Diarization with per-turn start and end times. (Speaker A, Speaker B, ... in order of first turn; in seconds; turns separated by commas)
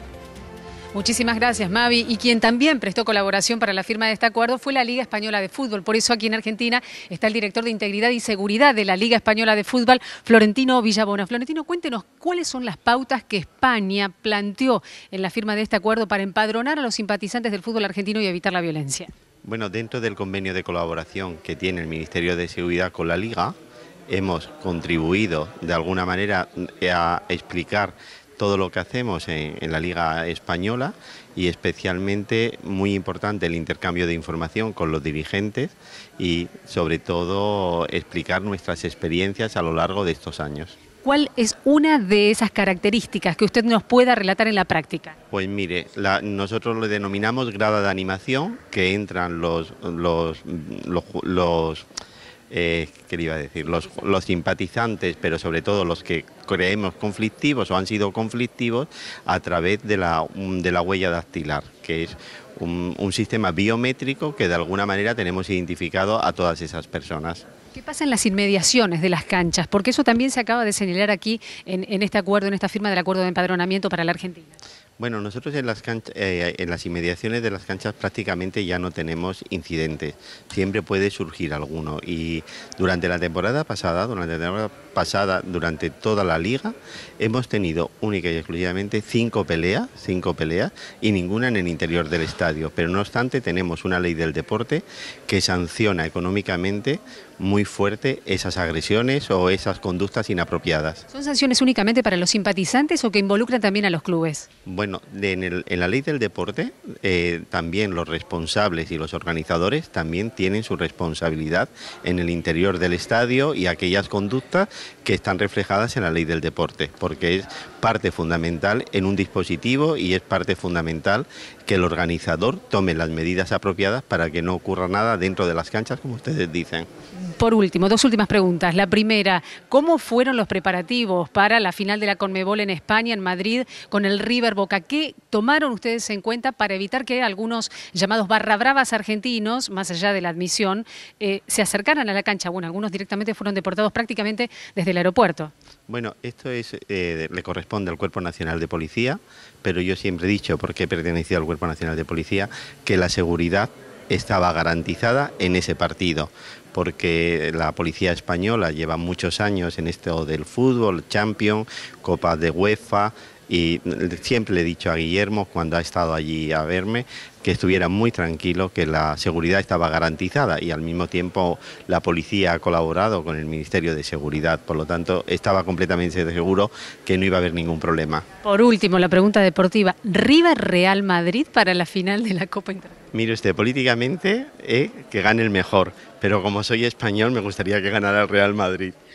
Speaker A: 0.9-19.1, Speaker B: 19.4-23.6, Speaker B: 24.1-40.8, Speaker A: 41.0-45.2, Speaker B: 45.3-51.9, Speaker B: 52.5-67.5, Speaker A: 67.7-74.5, Speaker B: 75.0-101.0, Speaker A: 101.1-104.5, Speaker B: 104.7-126.9, Speaker A: 127.2-145.5, Speaker B: 145.9-178.2, Speaker A: 178.4-183.0, Speaker B: 183.1-188.9